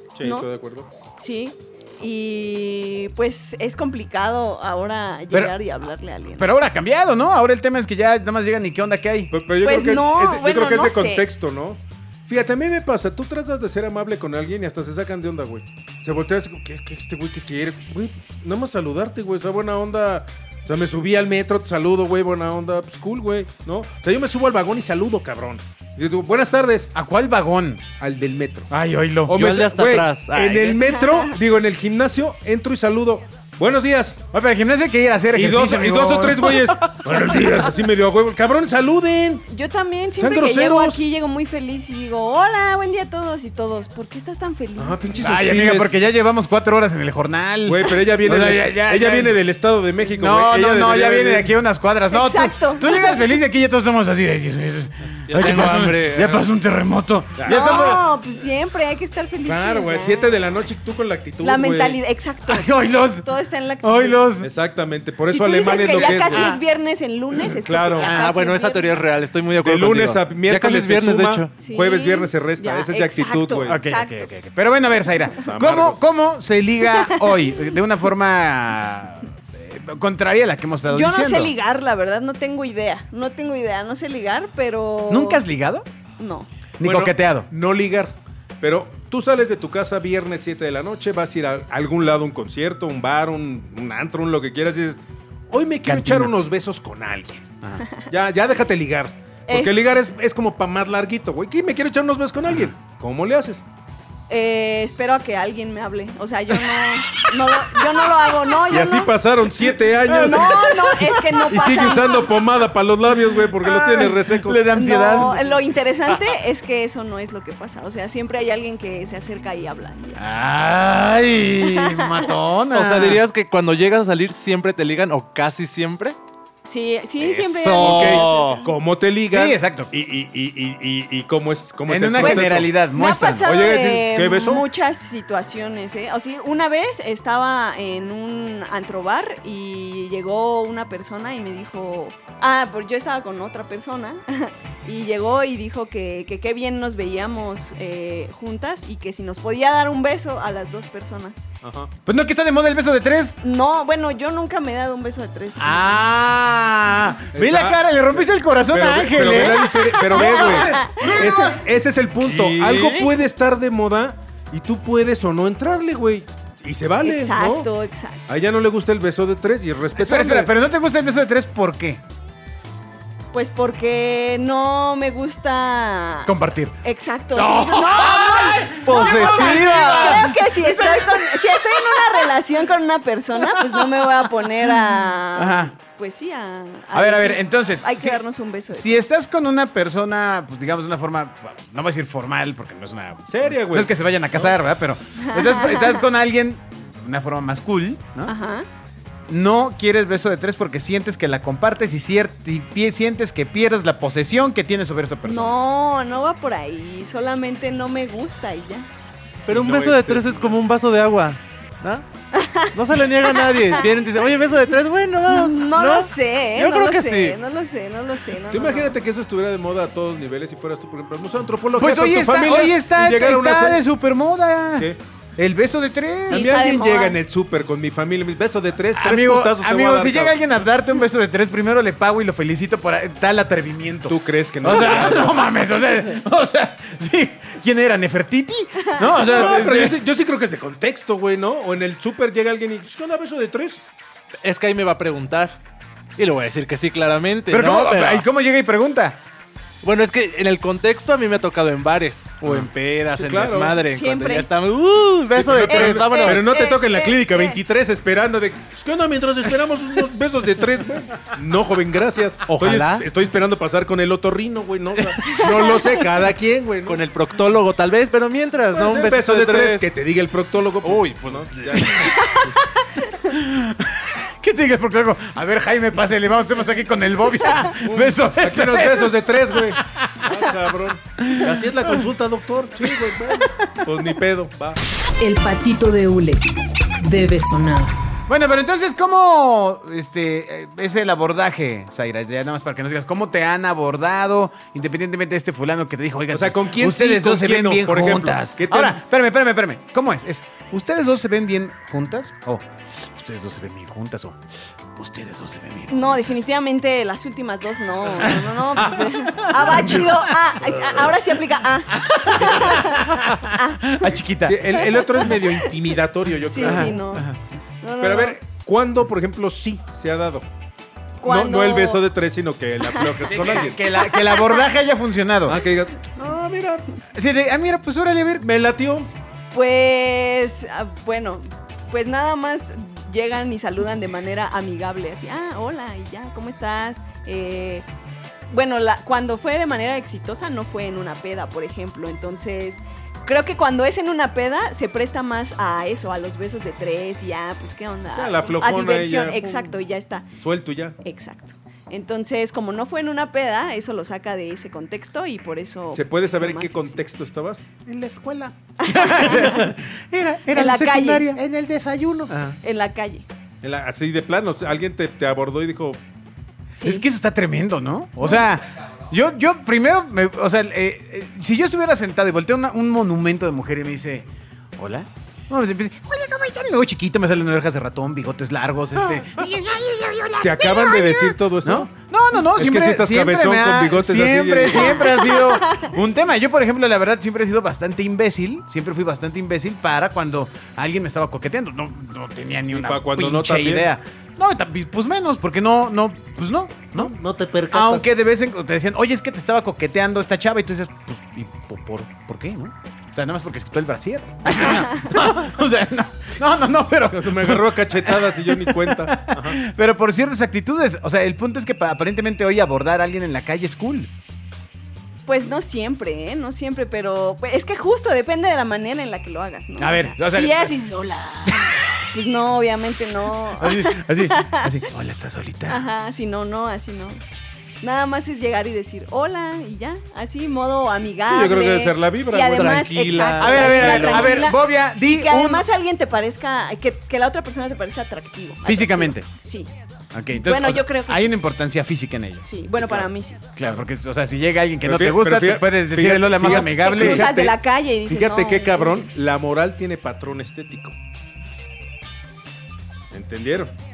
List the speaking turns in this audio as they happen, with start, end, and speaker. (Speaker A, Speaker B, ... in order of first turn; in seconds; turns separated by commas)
Speaker A: 0.1-0.9, Speaker B: 0.2-0.5, Speaker B: 1.2-6.5, Speaker C: 6.4-9.3, Speaker A: 9.3-26.9, Speaker B: 9.6-11.3, Speaker C: 26.9-27.8, Speaker A: 28.0-28.7, Speaker C: 28.7-29.4, Speaker A: 29.3-34.2, Speaker D: 29.4-30.8, Speaker B: 30.9-31.4, Speaker C: 34.3-36.7, Speaker A: 35.3-39.5, Speaker B: 39.5-45.3, Speaker A: 40.2-41.0, Speaker A: 44.8-45.9, Speaker C: 45.2-49.4, Speaker A: 47.6-51.5, Speaker C: 50.0-58.1, Speaker B: 52.1-53.4, Speaker D: 55.3-56.5, Speaker A: 57.4-58.0, Speaker B: 57.5-60.6, Speaker A: 59.5-62.0, Speaker B: 61.4-64.2, Speaker C: 62.5-63.3, Speaker C: 63.8-64.5, Speaker A: 64.4-66.5, Speaker B: 65.3-69.0, Speaker C: 65.7-66.6, Speaker A: 67.6-68.2, Speaker C: 68.0-68.3, Speaker D: 68.1-71.5, Speaker A: 69.6-73.8, Speaker B: 71.6-74.5, Speaker C: 73.7-81.5, Speaker A: 75.4-76.0, Speaker B: 76.8-77.5, Speaker B: 80.9-85.5, Speaker C: 85.1-85.8, Speaker B: 86.2-86.5, Speaker C: 86.8-87.5, Speaker A: 86.8-97.5, Speaker C: 95.8-96.3, Speaker A: 98.1-103.6, Speaker B: 99.5-99.7, Speaker C: 102.5-102.7, Speaker B: 104.3-109.1, Speaker A: 108.7-110.9, Speaker C: 110.0-112.1, Speaker B: 110.2-112.3, Speaker A: 111.5-115.3, Speaker C: 113.6-115.5, Speaker B: 114.7-120.2, Speaker C: 120.2-123.2, Speaker B: 121.6-122.3, Speaker D: 122.7-126.2, Speaker B: 126.7-128.7, Speaker D: 127.2-128.6, Speaker A: 127.8-132.7, Speaker C: 129.3-129.9, Speaker C: 131.9-133.5, Speaker B: 132.2-151.5, Speaker A: 133.4-134.7, Speaker A: 151.6-151.9, Speaker C: 152.1-153.4, Speaker B: 153.4-156.0, Speaker C: 155.6-161.6, Speaker A: 157.3-167.7, Speaker B: 159.5-161.6, Speaker D: 162.3-163.1, Speaker B: 167.0-168.2, Speaker A: 168.3-170.5, Speaker C: 170.0-172.0, Speaker B: 173.3-176.3, Speaker C: 176.3-176.8, Speaker B: 176.8-189.0, Speaker C: 177.3-182.3, Speaker D: 178.8-180.2, Speaker C: 183.4-184.8, Speaker C: 185.3-185.7, Speaker C: 186.9-198.3, Speaker A: 193.3-194.5, Speaker B: 195.2-196.0, Speaker B: 198.3-198.7, Speaker C: 199.3-205.6, Speaker B: 205.2-208.9, Speaker D: 209.5-212.1, Speaker A: 209.5-210.6, Speaker B: 212.3-212.7, Speaker D: 212.7-217.4, Speaker B: 213.2-213.9, Speaker B: 215.3-219.0, Speaker A: 218.5-223.8, Speaker C: 221.8-226.6, Speaker B: 226.3-227.2, Speaker A: 226.3-230.4, Speaker C: 228.9-240.0, Speaker A: 234.1-235.5, Speaker B: 238.9-239.5, Speaker A: 239.2-243.8, Speaker D: 244.4-245.6, Speaker D: 246.2-248.3, Speaker C: 247.5-249.2, Speaker D: 249.8-256.5, Speaker C: 252.4-252.7, Speaker A: 253.1-253.8, Speaker B: 253.9-254.5, Speaker A: 255.3-267.0, Speaker B: 255.6-257.6, Speaker D: 262.4-263.1, Speaker C: 265.3-265.9, Speaker D: 266.9-269.9, Speaker A: 268.7-272.5, Speaker D: 270.8-272.1, Speaker C: 271.8-272.4, Speaker C: 273.1-280.3, Speaker A: 277.9-284.8, Speaker C: 281.3-281.5, Speaker C: 283.3-283.9, Speaker E: 285.2-286.5, Speaker E: 287.0-288.0, Speaker C: 288.3-304.4, Speaker A: 296.3-299.0, Speaker C: 304.9-306.5, Speaker B: 305.9-314.1, Speaker C: 308.0-311.3, Speaker C: 312.0-314.9, Speaker A: 314.4-316.9, Speaker B: 314.7-315.8, Speaker B: 316.5-317.3, Speaker C: 316.6-317.4, Speaker B: 317.8-318.4, Speaker A: 318.0-320.5, Speaker B: 321.2-322.1, Speaker A: 321.2-323.8, Speaker B: 322.9-324.7, Speaker C: 323.2-325.6, Speaker A: 325.4-326.9, Speaker C: 327.1-328.5, Speaker A: 328.4-329.1, Speaker B: 329.5-337.9, Speaker B: 338.5-350.3, Speaker A: 348.1-349.8, Speaker A: 350.4-351.0, Speaker B: 351.0-357.1, Speaker A: 355.9-358.5, Speaker B: 358.8-359.7, Speaker C: 358.9-361.4, Speaker B: 360.5-361.3, Speaker A: 361.4-362.3, Speaker C: 362.3-362.6, Speaker B: 362.6-363.3, Speaker A: 363.6-366.0, Speaker B: 366.7-367.1, Speaker C: 366.8-397.1, Speaker A: 380.4-385.1, Speaker B: 384.7-385.9, Speaker A: 392.7-393.9, Speaker A: 397.0-398.1, Speaker C: 397.7-414.1, Speaker A: 407.1-409.6, Speaker B: 415.3-424.7, Speaker C: 419.8-420.8, Speaker C: 421.4-422.0, Speaker C: 422.9-425.9, Speaker B: 425.7-427.2, Speaker B: 427.8-439.7, Speaker A: 431.3-432.8, Speaker D: 432.4-434.3, Speaker C: 433.4-435.7, Speaker C: 438.6-439.3, Speaker C: 440.1-442.4, Speaker B: 440.3-441.3, Speaker B: 442.4-443.4, Speaker A: 442.8-443.1, Speaker C: 443.6-447.3, Speaker A: 444.8-451.0, Speaker B: 446.4-449.1, Speaker A: 453.1-453.7